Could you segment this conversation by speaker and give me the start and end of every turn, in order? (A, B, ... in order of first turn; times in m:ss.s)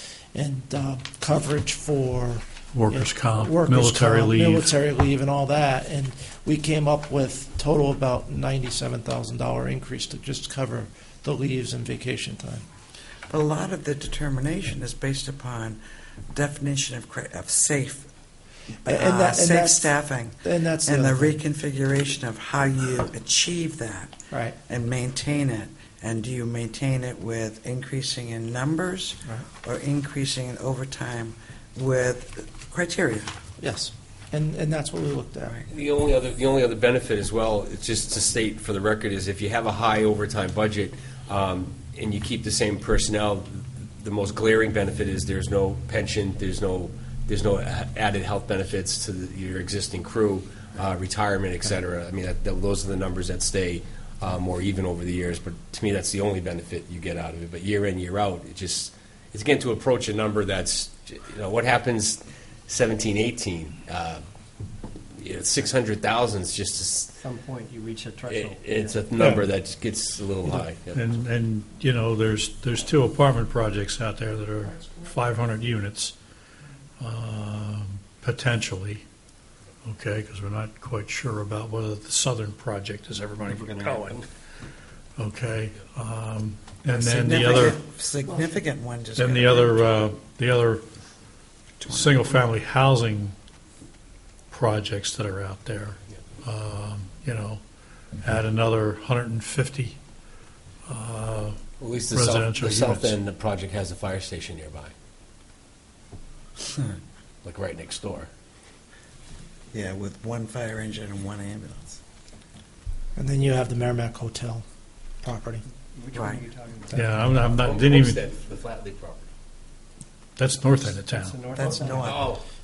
0:00.3-0:12.6 A
0:02.7-0:04.7 B
0:13.3-0:15.8 C
0:16.3-0:18.1 C
0:18.8-0:24.2 C
0:18.9-0:21.4 A
0:24.3-0:24.6 A
0:24.7-0:33.3 C
0:33.6-0:35.6 A
0:35.7-1:04.2 D
1:05.2-1:07.2 D
1:07.2-1:09.0 E
1:08.3-1:11.1 D
1:09.2-1:09.4 A
1:10.9-1:16.2 B
1:17.0-1:19.0 B
1:19.9-1:24.2 B
1:23.4-1:24.2 E
1:25.2-1:27.8 B
1:26.9-1:29.9 C
1:29.2-1:30.8 B
1:31.8-1:32.5 C
1:31.9-1:33.4 B
1:34.5-1:37.6 B
1:38.2-1:40.0 B
1:40.9-1:43.1 B
1:41.8-1:44.9 D
1:46.7-1:47.0 C
1:47.4-1:48.3 D
1:49.7-1:52.0 C
1:53.2-1:54.6 A
1:55.2-1:55.6 A
1:55.9-1:57.5 E
1:56.1-1:56.4 C
1:56.9-1:58.2 B
1:57.5-1:59.3 D
2:00.4-2:01.4 B
2:00.9-2:02.2 E
2:01.6-2:02.3 C
2:01.6-2:02.4 D